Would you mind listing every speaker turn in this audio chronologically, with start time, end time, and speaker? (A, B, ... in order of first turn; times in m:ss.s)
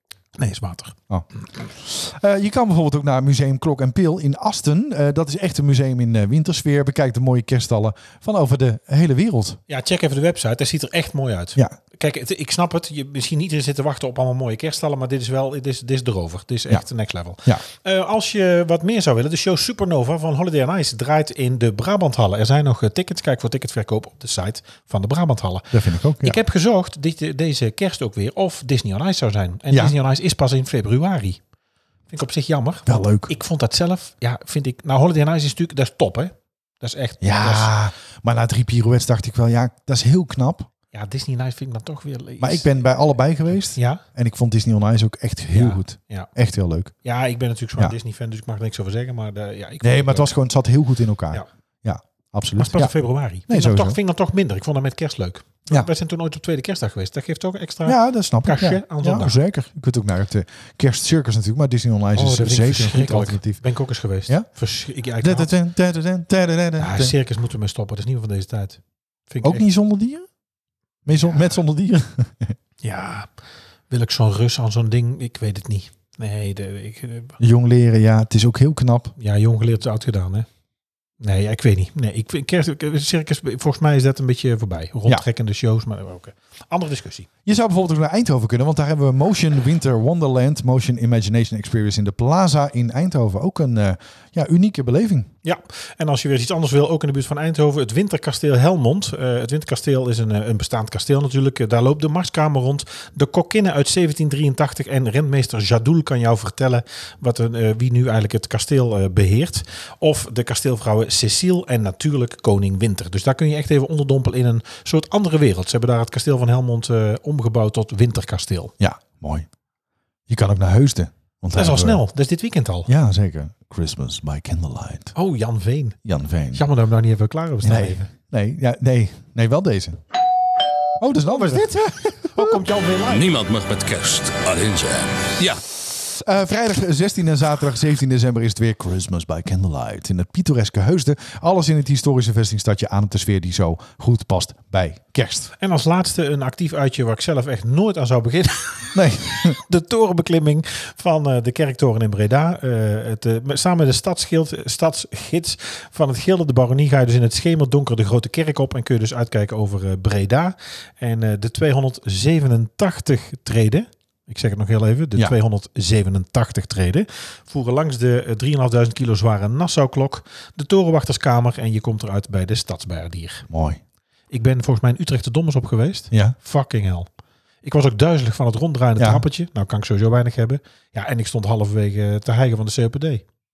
0:00.4-0:01.0 A
0:01.1-0:09.6 B
0:09.7-0:31.4 A
0:25.7-0:26.4 B
0:32.1-0:37.7 A
0:32.9-0:33.3 B
0:37.2-0:40.7 B
0:40.9-0:42.7 A
0:42.4-0:46.9 B
0:43.7-0:44.0 A
0:45.5-0:46.3 A
0:47.0-0:50.4 A
0:49.8-0:52.9 B
0:52.6-0:59.4 A
0:53.5-0:54.0 B
0:57.8-1:03.6 B
1:02.2-1:05.5 A
1:05.2-1:07.1 B
1:06.8-1:09.6 A
1:09.4-1:10.3 B
1:11.1-1:12.6 B
1:12.8-1:13.3 A
1:13.9-1:17.4 A
1:17.4-1:19.1 B
1:19.2-1:20.5 A
1:21.2-1:27.3 A
1:27.4-1:35.3 B
1:35.4-1:58.7 A
1:58.8-1:59.5 B
2:00.3-2:02.0 B
2:01.5-2:02.9 A
2:02.9-2:05.1 B
2:05.2-2:06.0 A
2:06.0-2:06.6 B
2:06.5-2:08.1 A
2:07.6-2:10.0 B
2:11.0-2:12.6 B
2:11.2-2:13.2 A
2:13.1-2:15.6 C
2:16.2-2:25.5 B
2:25.6-2:53.5 A
2:28.9-2:29.6 B
2:53.5-2:53.8 B
2:54.3-2:57.1 A
2:57.6-3:03.2 A
2:59.0-2:59.2 B